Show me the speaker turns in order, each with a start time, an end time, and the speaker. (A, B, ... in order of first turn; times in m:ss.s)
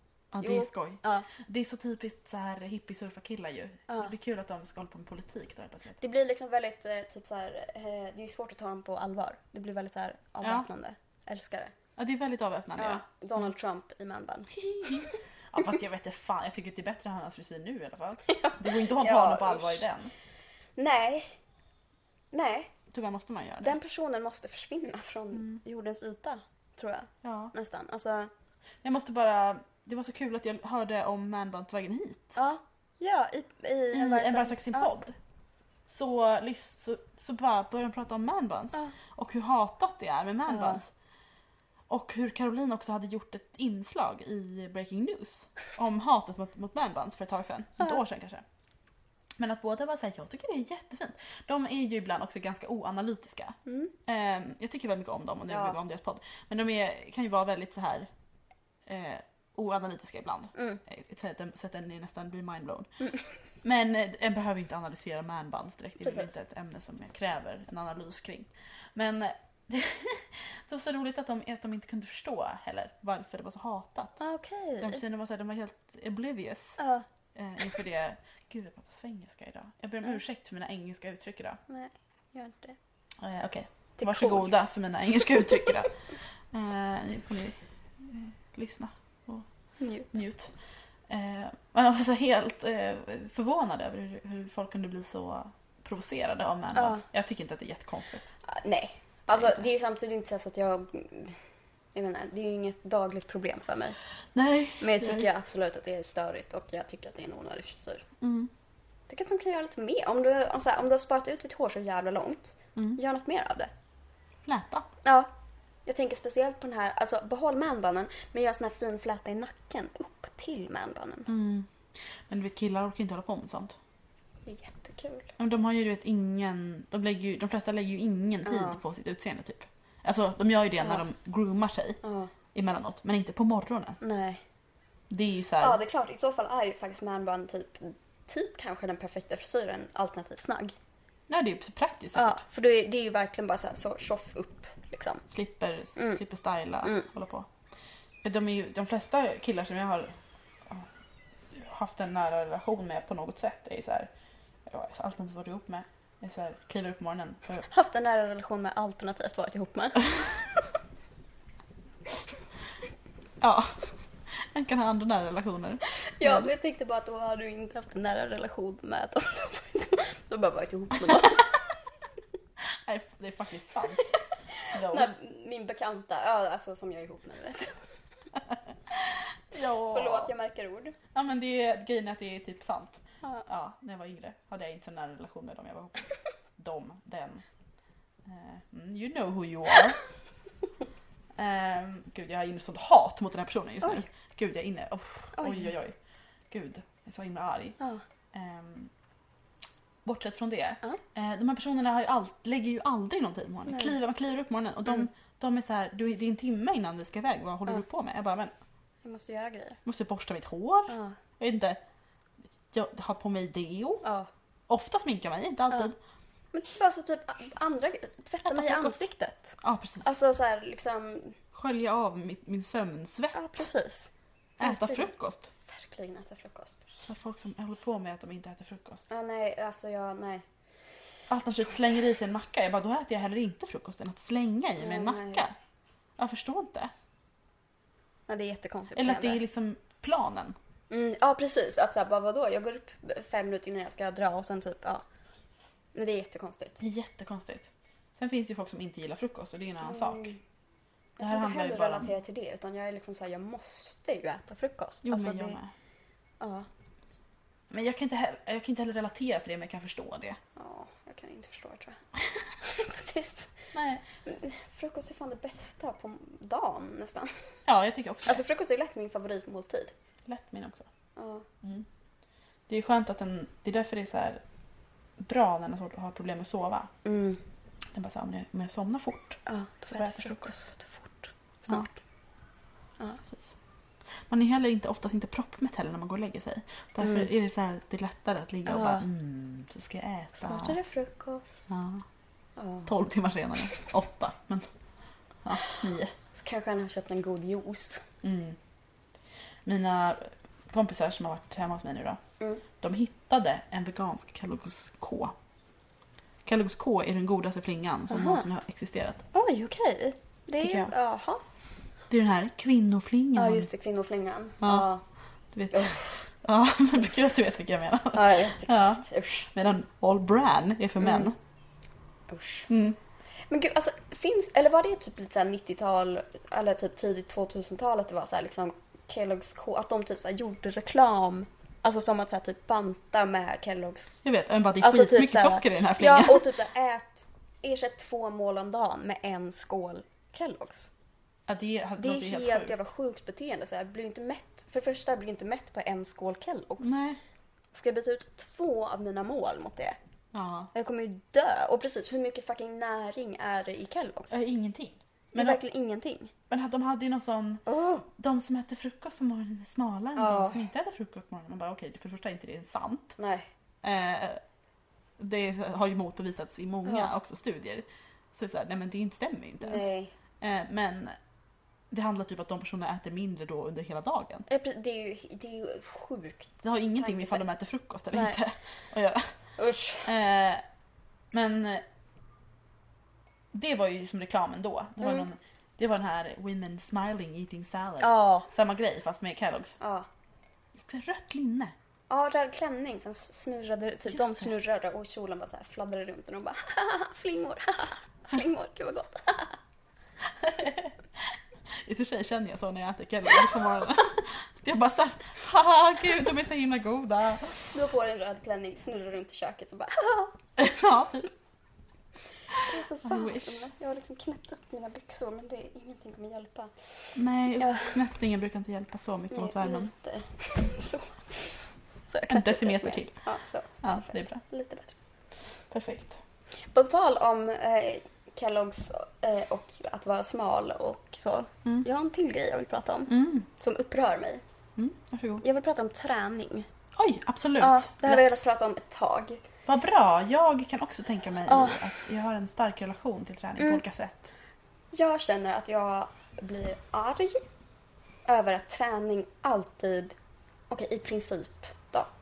0:00.3-0:06.0 A
0:00.4-0:01.3 B
0:06.0-0:11.7 B
0:10.4-0:10.7 A
0:12.0-0:13.0 A
0:12.8-0:15.2 B
0:14.5-0:20.1 A
0:18.2-0:19.8 B
0:20.8-0:21.4 B
0:22.3-0:22.7 B
0:22.9-0:23.8 A
0:23.6-0:28.3 B
0:25.3-0:25.6 A
0:27.2-0:27.5 A
0:28.8-0:32.4 A
0:32.4-0:34.9 B
0:33.9-0:35.1 A
0:35.9-0:40.9 A
0:40.5-0:40.8 B
0:41.9-0:48.4 A
0:49.4-0:58.1 A
0:53.6-0:53.9 B
0:55.5-0:55.8 B
0:58.8-1:03.0 A
1:00.5-1:00.8 B
1:03.6-1:14.2 A
1:06.0-1:06.3 B
1:14.2-1:15.0 B
1:14.8-1:16.8 A
1:16.8-1:17.0 B
1:17.3-1:21.6 A
1:21.7-1:22.8 B
1:23.2-1:25.9 A
1:24.0-1:24.6 B
1:26.5-1:29.4 A
1:29.8-1:30.2 B
1:30.1-1:30.5 A
1:31.1-1:38.3 A
1:36.7-1:37.0 B
1:38.4-1:41.4 B
1:39.3-1:39.6 A
1:41.9-1:44.0 B
1:44.3-1:45.3 A
1:44.8-1:48.0 B
1:48.2-1:48.5 A
1:49.1-1:53.7 B
1:54.4-1:54.9 A
1:55.0-1:55.3 B
1:55.8-2:01.3 B
2:01.3-2:03.8 A
2:04.5-2:05.3 B
2:05.4-2:12.0 A
2:08.4-2:08.8 B
2:12.0-2:12.3 B
2:12.5-2:14.0 A
2:14.0-2:14.4 B
2:15.1-2:15.8 A
2:15.6-2:20.7 B
2:21.3-2:22.4 A
2:22.2-2:25.2 B
2:25.3-2:27.5 A
2:26.0-2:26.2 B
2:28.2-2:30.1 A
2:31.5-2:34.1 A
2:34.6-2:37.6 A
2:37.7-2:40.6 B
2:43.4-2:46.5 A
2:46.0-2:51.8 B
2:52.6-2:54.2 A
2:54.2-2:57.8 B
2:54.7-2:55.1 A
2:58.4-3:00.3 A
2:59.8-3:01.0 B
3:01.1-3:07.4 A
3:08.2-3:10.0 A
3:11.4-3:16.0 A
3:15.4-3:15.7 B
3:16.5-3:17.8 A
3:18.3-3:18.9 A
3:20.0-3:28.5 A
3:23.7-3:23.9 B
3:29.0-3:29.8 B
3:29.8-3:31.8 A
3:30.9-3:31.2 B
3:32.7-3:34.0 A
3:34.0-3:34.3 B
3:34.7-3:36.0 A
3:36.5-3:41.4 B
3:38.4-3:39.0 A
3:39.6-3:40.1 A
3:41.5-3:43.7 A
3:43.3-3:44.1 B
3:44.6-3:45.5 A
3:44.6-3:45.1 B
3:45.6-3:46.9 B
3:47.0-3:49.0 A
3:49.1-3:50.4 B
3:51.3-3:55.5 A
3:54.8-3:55.4 B
3:56.2-3:56.9 A
3:58.3-3:59.4 B
3:58.9-4:00.6 A
4:00.9-4:05.0 B
4:05.9-4:06.8 B
4:06.8-4:10.3 A
4:09.8-4:10.4 B
4:11.2-4:15.6 B
4:11.2-4:12.1 A
4:15.0-4:15.7 A
4:16.4-4:16.7 B
4:17.7-4:20.4 A
4:20.6-4:22.0 B
4:22.6-4:27.4 B
4:23.7-4:24.0 A
4:27.7-4:28.4 A
4:28.2-4:29.9 B
4:30.2-4:30.9 A
4:31.2-4:31.5 B
4:31.6-4:31.9 A
4:32.7-4:34.4 A
4:35.2-4:36.9 A
4:37.0-4:37.4 B
4:37.9-4:39.4 A
4:39.4-4:41.9 B
4:39.9-4:40.5 A
4:41.6-4:41.9 A
4:44.3-4:50.8 A
4:47.0-4:47.3 B
4:48.7-4:49.0 B
4:50.4-4:51.6 B
4:51.7-4:52.0 A
4:52.6-4:52.9 B
4:52.8-4:54.6 A
4:55.4-4:56.1 A
4:56.3-4:58.0 B
4:58.2-4:58.6 A
4:59.6-5:02.2 A
5:02.8-5:05.3 A
5:06.4-5:09.2 A
5:08.1-5:08.4 B
5:09.3-5:11.4 B
5:10.6-5:10.9 A
5:12.1-5:13.7 A
5:13.4-5:15.0 B
5:14.6-5:14.9 A
5:15.5-5:21.4 A
5:15.7-5:16.1 B
5:18.1-5:19.5 B
5:21.0-5:21.3 B
5:22.3-5:22.7 B
5:22.7-5:23.0 A
5:23.5-5:34.2 B
5:34.2-5:36.4 A
5:34.8-5:40.9 B
5:41.5-5:42.8 A
5:42.0-5:46.9 B
5:46.8-5:47.2 A
5:47.7-5:50.0 B
5:50.3-5:50.7 A
5:50.7-5:54.4 B
5:54.3-5:55.6 A
5:55.3-5:56.3 B
5:56.5-6:03.1 A
5:57.6-5:58.0 B
6:00.2-6:00.6 B
6:03.2-6:03.5 B
6:03.8-6:04.4 A
6:05.2-6:09.9 A
6:06.8-6:07.1 B
6:09.6-6:10.1 B
6:10.4-6:11.2 A
6:11.9-6:14.4 A
6:14.5-6:17.4 B
6:16.6-6:19.3 A
6:18.1-6:18.4 B
6:19.6-6:20.1 B
6:20.0-6:20.6 A
6:21.3-6:21.8 A
6:23.5-6:29.8 A
6:25.0-6:25.3 B
6:28.0-6:28.5 B
6:29.8-6:30.1 B
6:30.8-6:31.7 A
6:32.1-6:39.6 B
6:34.1-6:34.5 A
6:40.4-6:47.8 A
6:47.7-6:50.3 B
6:50.6-6:51.3 A
6:52.5-6:57.9 B
6:52.5-6:53.7 A
6:57.1-6:59.9 A
6:59.3-7:05.0 B
7:02.3-7:03.2 A
7:03.8-7:04.4 A
7:05.7-7:06.2 A
7:06.7-7:14.4 B
7:13.1-7:13.5 A
7:14.8-7:15.4 A
7:15.4-7:16.7 B
7:17.0-7:18.5 A
7:17.6-7:19.4 B
7:19.6-7:24.3 A
7:21.5-7:21.8 B
7:24.9-7:27.4 B
7:28.2-7:30.2 B
7:30.7-7:32.1 B